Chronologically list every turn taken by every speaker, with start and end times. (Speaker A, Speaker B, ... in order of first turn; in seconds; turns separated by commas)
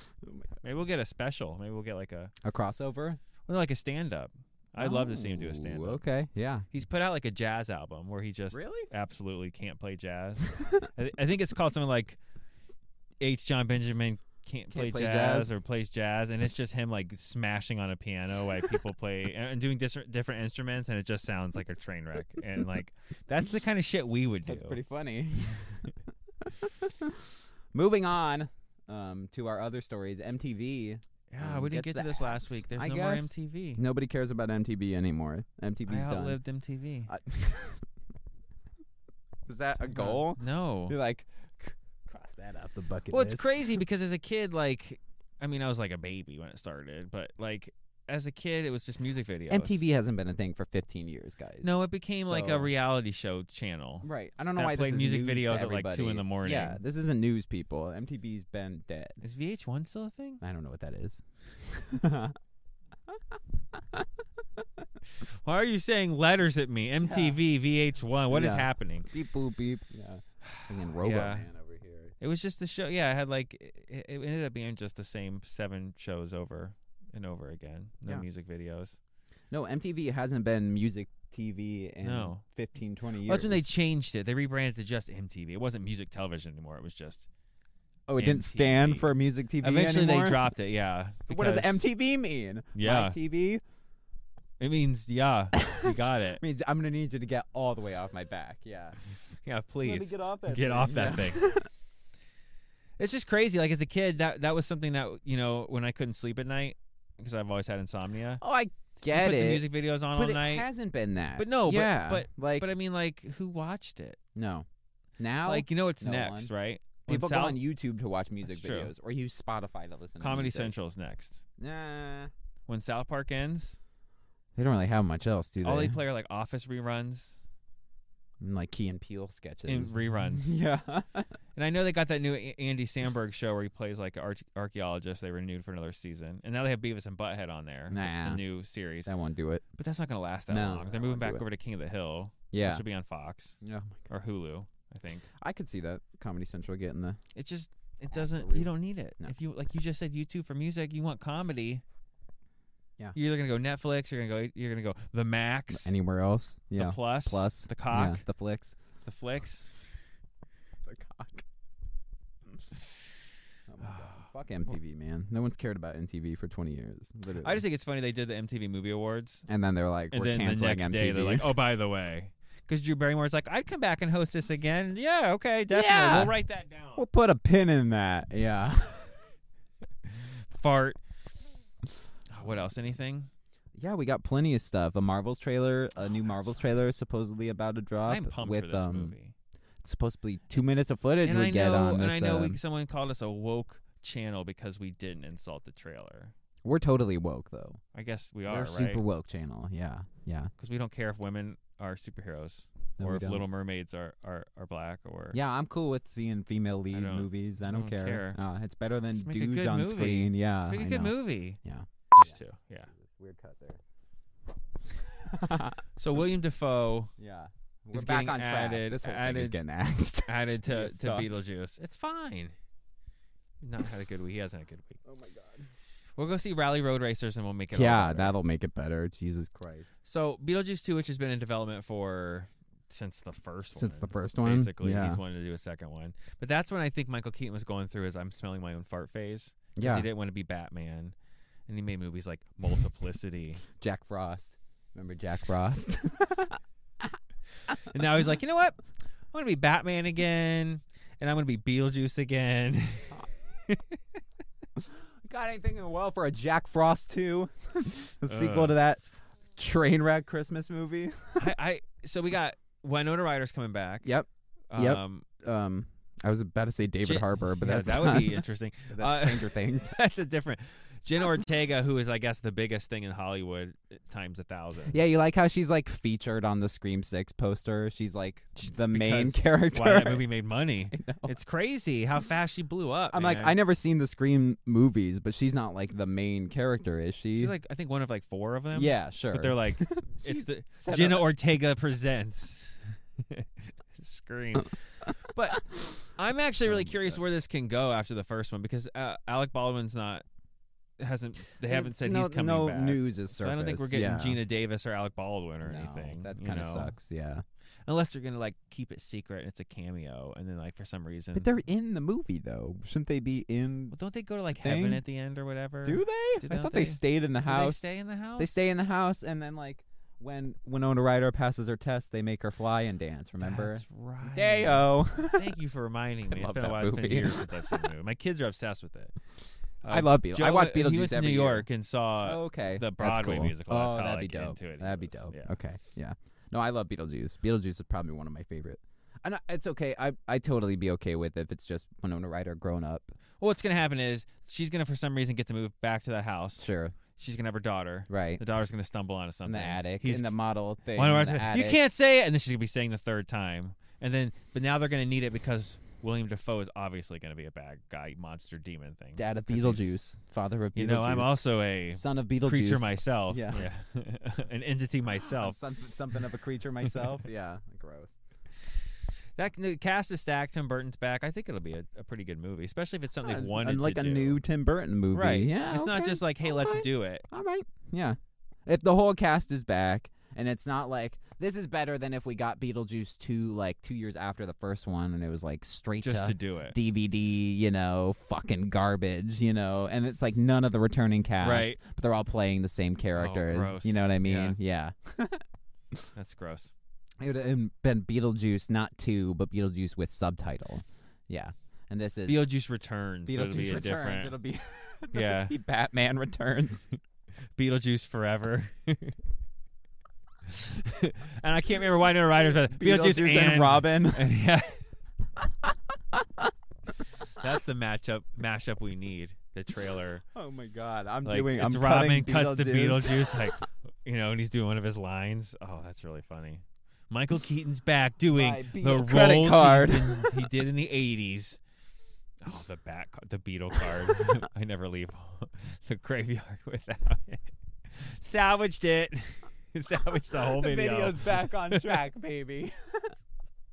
Speaker A: 0.2-0.6, Speaker B: 0.6-2.3, Speaker A: 2.4-3.2, Speaker B: 3.5-6.0, Speaker A: 4.8-6.7, Speaker B: 6.7-12.2, Speaker A: 8.5-8.9, Speaker B: 13.2-24.8, Speaker A: 14.7-15.5, Speaker A: 24.4-25.9, Speaker A: 26.4-27.1, Speaker A: 27.7-36.4, Speaker B: 31.3-33.8, Speaker B: 35.9-37.1, Speaker A: 37.1-37.8, Speaker A: 39.5-43.8, Speaker B: 39.8-41.0, Speaker B: 43.1-49.8, Speaker A: 49.5-52.7, Speaker B: 51.6-56.8, Speaker A: 54.0-59.2, Speaker B: 59.2-60.4, Speaker A: 60.4-62.3, Speaker A: 63.7-64.0, Speaker B: 65.2-69.1, Speaker A: 67.0-67.4, Speaker A: 68.3-72.1, Speaker B: 70.5-71.5, Speaker B: 72.2-79.0, Speaker A: 79.5-83.7, Speaker B: 82.0-82.4, Speaker B: 83.2-87.3, Speaker A: 88.1-90.5, Speaker B: 88.2-91.8, Speaker A: 91.3-93.6, Speaker B: 92.7-93.2, Speaker B: 94.6-96.4, Speaker A: 95.6-99.0, Speaker B: 99.4-101.5, Speaker A: 99.8-101.7, Speaker B: 103.0-108.4, Speaker A: 108.4-112.7, Speaker B: 109.1-110.7, Speaker B: 111.4-114.2, Speaker A: 114.3-114.7, Speaker A: 115.2-116.5, Speaker B: 115.4-117.6, Speaker A: 117.1-120.7, Speaker B: 118.5-118.9, Speaker B: 120.2-121.4, Speaker A: 121.6-122.3, Speaker B: 122.7-123.8, Speaker A: 124.5-126.0, Speaker B: 125.6-127.4, Speaker A: 128.4-131.3, Speaker B: 129.7-130.6, Speaker B: 131.6-139.1, Speaker A: 137.9-138.4, Speaker A: 139.1-139.6, Speaker B: 139.8-143.6, Speaker A: 140.5-141.4, Speaker A: 142.5-142.8, Speaker A: 143.6-144.1, Speaker B: 144.1-145.2, Speaker A: 145.4-147.2, Speaker B: 147.3-151.8, Speaker A: 148.1-149.3, Speaker B: 153.1-155.9, Speaker A: 155.7-158.8, Speaker B: 156.7-158.2, Speaker B: 159.0-159.7, Speaker A: 160.8-161.4, Speaker A: 163.7-167.6, Speaker B: 163.8-164.2, Speaker B: 167.4-169.4, Speaker A: 169.5-171.5, Speaker B: 170.1-177.1, Speaker A: 175.7-176.4, Speaker A: 176.9-179.1, Speaker B: 180.1-181.0, Speaker B: 182.3-183.3, Speaker A: 183.8-189.1, Speaker B: 188.1-189.3, Speaker A: 189.8-192.6, Speaker B: 191.2-196.3, Speaker A: 196.6-197.8, Speaker B: 197.9-199.0, Speaker A: 198.4-200.5, Speaker B: 200.6-205.4, Speaker A: 203.0-203.4, Speaker A: 205.3-212.4, Speaker B: 206.9-208.4, Speaker B: 209.1-211.6, Speaker B: 212.1-212.9, Speaker A: 212.9-213.8, Speaker A: 215.0-215.8, Speaker B: 215.9-217.1, Speaker A: 217.2-221.4, Speaker B: 217.9-219.6, Speaker B: 220.3-222.5, Speaker B: 223.6-225.0, Speaker A: 225.0-225.7, Speaker B: 226.2-228.3, Speaker A: 227.7-229.9, Speaker B: 230.0-241.1, Speaker A: 233.7-235.2, Speaker A: 239.8-240.1, Speaker B: 241.7-243.6, Speaker A: 243.8-246.6, Speaker B: 247.7-248.8, Speaker B: 249.3-254.0, Speaker A: 254.8-259.0, Speaker B: 258.3-258.8, Speaker A: 259.6-261.5, Speaker B: 261.4-264.1, Speaker A: 264.0-270.0, Speaker B: 264.7-265.2, Speaker B: 267.0-275.0, Speaker A: 274.9-280.2, Speaker B: 278.6-283.6, Speaker A: 280.9-281.3, Speaker A: 283.1-287.5, Speaker B: 287.3-300.2, Speaker A: 288.7-291.3, Speaker A: 295.5-296.0, Speaker A: 296.7-297.2, Speaker B: 301.0-306.9, Speaker A: 301.6-304.4, Speaker A: 305.6-307.4, Speaker B: 307.9-311.5, Speaker A: 311.3-313.9, Speaker B: 313.9-318.6, Speaker A: 314.6-315.0, Speaker A: 315.8-325.6, Speaker B: 323.4-329.1, Speaker A: 326.3-327.9, Speaker B: 329.8-335.5, Speaker A: 329.9-331.7, Speaker A: 332.2-343.1, Speaker B: 343.4-350.3, Speaker A: 346.6-346.9, Speaker A: 348.1-348.4, Speaker A: 349.4-351.8, Speaker B: 350.9-359.9, Speaker A: 359.2-363.6, Speaker B: 360.7-365.6, Speaker A: 365.2-368.1, Speaker B: 369.4-374.4, Speaker A: 373.2-395.4, Speaker B: 375.1-377.2, Speaker B: 386.0-386.8, Speaker B: 391.4-391.8, Speaker B: 393.1-394.6, Speaker B: 396.1-396.7, Speaker A: 397.2-402.4, Speaker B: 402.3-404.4, Speaker A: 403.3-406.9, Speaker B: 405.1-405.5, Speaker B: 407.6-409.2, Speaker B: 410.5-414.8, Speaker A: 412.4-414.3, Speaker A: 416.1-416.5, Speaker B: 417.3-420.2, Speaker A: 420.3-423.5, Speaker B: 421.2-431.6, Speaker A: 428.3-430.5, Speaker B: 432.4-442.0, Speaker A: 440.4-443.1